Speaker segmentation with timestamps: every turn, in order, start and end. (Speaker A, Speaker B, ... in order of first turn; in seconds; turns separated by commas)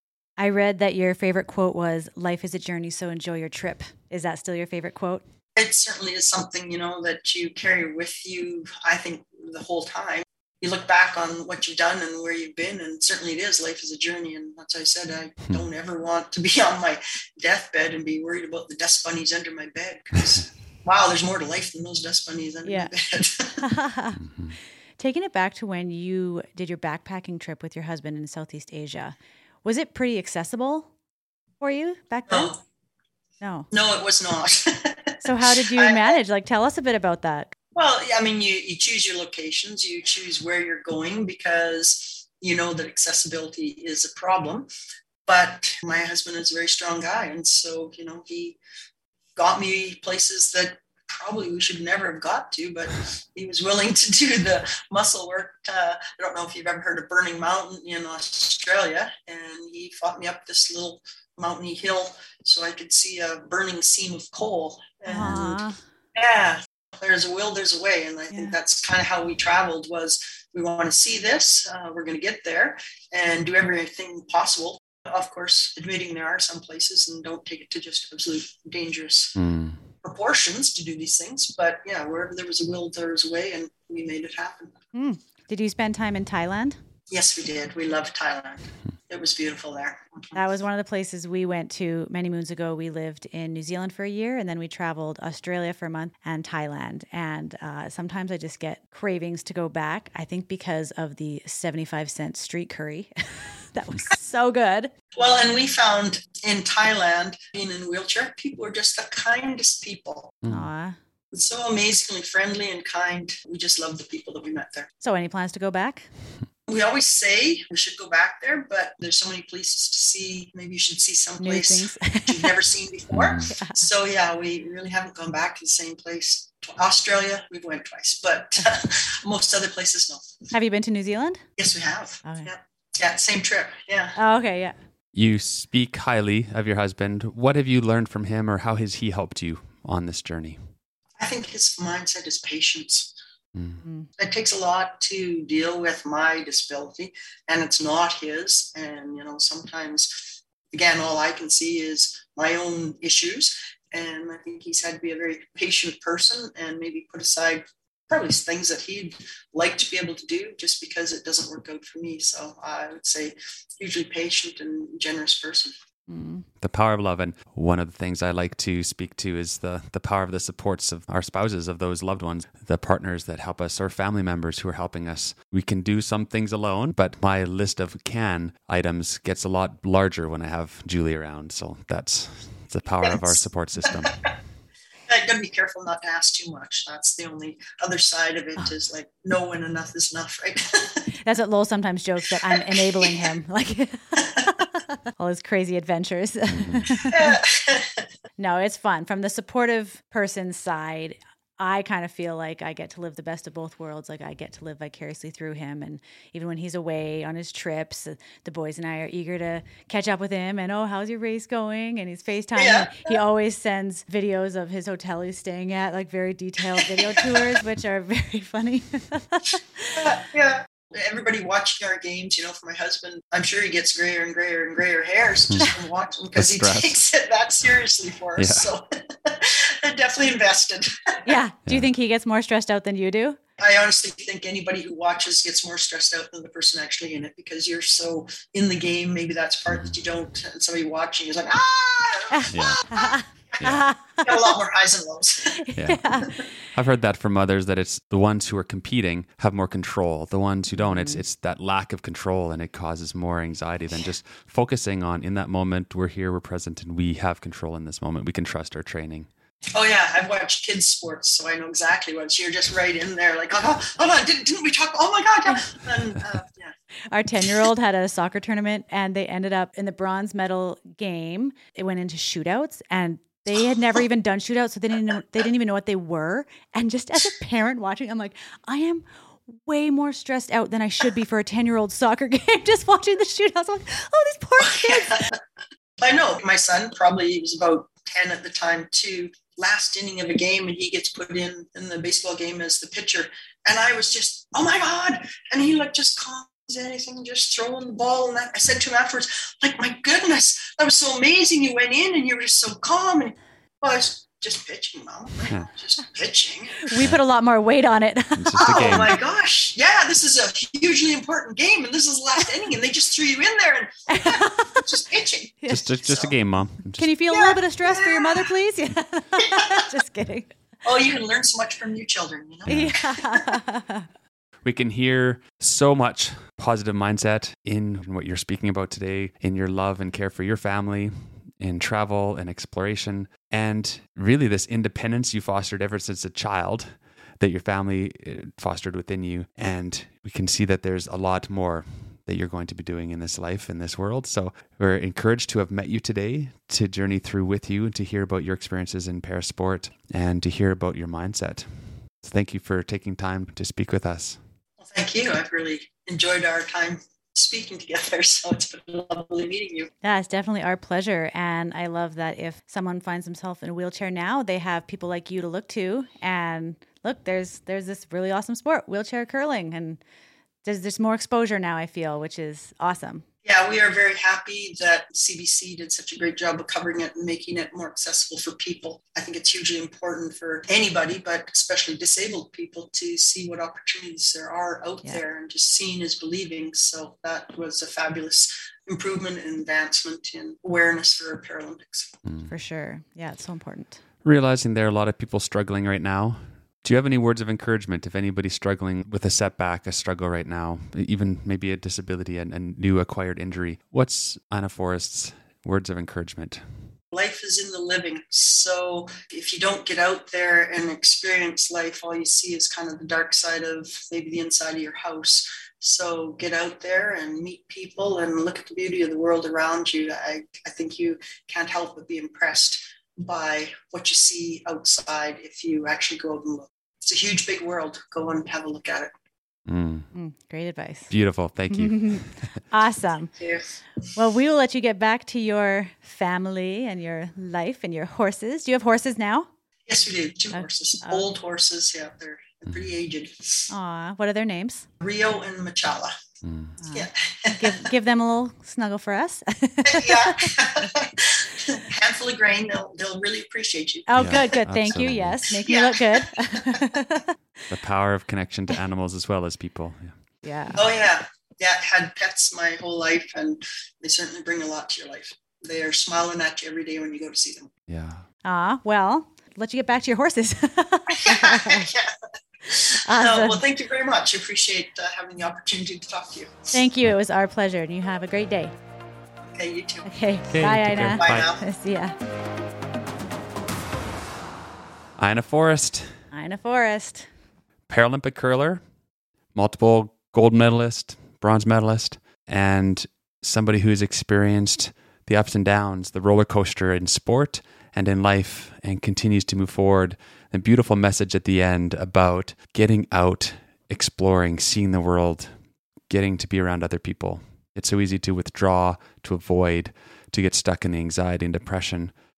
Speaker A: 0.4-5.2, Speaker B: 5.5-23.7, Speaker A: 22.6-22.9, Speaker A: 23.6-24.2, Speaker C: 24.2-24.6, Speaker A: 25.0-30.9, Speaker A: 31.6-32.5, Speaker B: 32.3-32.6, Speaker A: 33.4-33.7, Speaker B: 33.7-36.2, Speaker A: 35.2-37.5, Speaker B: 37.7-44.7, Speaker B: 45.3-48.6, Speaker B: 49.4-65.6, Speaker A: 65.1-65.8, Speaker B: 66.1-79.4, Speaker C: 79.4-79.8, Speaker B: 80.0-84.7, Speaker A: 84.9-86.8, Speaker B: 87.1-90.4, Speaker A: 90.3-104.9, Speaker B: 105.1-110.4, Speaker C: 110.4-110.7, Speaker A: 110.5-111.0, Speaker B: 111.3-114.9, Speaker A: 115.0-116.1, Speaker B: 116.7-130.3, Speaker A: 121.4-122.6, Speaker C: 123.1-123.5, Speaker A: 123.5-123.9, Speaker A: 130.5-131.4, Speaker B: 131.6-134.2, Speaker A: 132.2-132.5, Speaker A: 134.2-134.8, Speaker C: 135.1-140.7, Speaker B: 141.2-143.1, Speaker C: 143.5-143.8, Speaker A: 143.8-144.1, Speaker B: 144.2-165.7, Speaker A: 166.1-166.4, Speaker C: 166.6-184.4, Speaker B: 183.0-184.3, Speaker B: 185.1-191.1, Speaker A: 191.2-197.4, Speaker B: 192.3-193.4, Speaker B: 194.2-194.6, Speaker C: 196.5-196.9, Speaker B: 197.1-198.1, Speaker A: 198.4-220.0, Speaker B: 212.6-213.2, Speaker B: 216.9-217.5, Speaker B: 219.9-231.3, Speaker C: 225.5-225.7, Speaker C: 226.3-227.0, Speaker C: 228.4-228.7, Speaker A: 231.3-233.4, Speaker B: 233.6-245.6, Speaker C: 239.7-239.9, Speaker A: 242.3-244.5, Speaker C: 242.5-242.9, Speaker C: 243.6-243.9, Speaker A: 245.6-246.5, Speaker C: 245.8-259.3, Speaker A: 250.7-251.2, Speaker B: 259.7-266.7, Speaker A: 267.1-285.2, Speaker B: 267.4-267.7, Speaker B: 273.5-274.0, Speaker B: 284.6-285.4, Speaker B: 286.0-306.9, Speaker A: 306.8-309.2, Speaker C: 308.4-309.2, Speaker B: 308.6-316.3, Speaker A: 314.1-314.9, Speaker C: 315.7-317.1, Speaker A: 317.0-320.5, Speaker B: 317.3-318.5, Speaker B: 319.4-319.9, Speaker B: 320.8-323.6, Speaker C: 322.7-322.9, Speaker A: 322.7-324.1, Speaker C: 324.6-354.4, Speaker B: 354.8-359.9, Speaker A: 360.0-370.0, Speaker A: 370.6-373.2, Speaker B: 373.4-392.1, Speaker C: 392.2-392.5, Speaker A: 392.5-394.0, Speaker C: 394.2-406.8, Speaker B: 407.1-429.1, Speaker C: 429.7-430.1, Speaker A: 430.1-431.1, Speaker C: 431.1-432.6, Speaker A: 431.7-433.3, Speaker B: 433.4-433.7, Speaker A: 434.1-439.5, Speaker B: 439.9-443.7, Speaker A: 440.5-441.3, Speaker A: 443.7-444.9, Speaker B: 445.0-446.1, Speaker C: 446.4-446.8, Speaker A: 446.8-450.7, Speaker B: 446.9-447.9, Speaker B: 449.8-454.6, Speaker A: 454.1-457.3, Speaker C: 454.2-455.6, Speaker B: 455.6-456.9, Speaker C: 457.7-460.4, Speaker A: 460.4-460.9, Speaker B: 460.7-467.7, Speaker C: 467.9-468.3, Speaker A: 468.4-471.9, Speaker B: 471.1-476.8, Speaker A: 473.1-473.6, Speaker A: 476.7-478.7, Speaker B: 479.4-480.1, Speaker A: 480.1-482.1, Speaker C: 480.5-481.5, Speaker B: 480.9-481.6, Speaker C: 485.2-486.2, Speaker A: 486.3-487.3, Speaker C: 487.9-488.8, Speaker C: 489.5-505.5, Speaker C: 506.1-512.1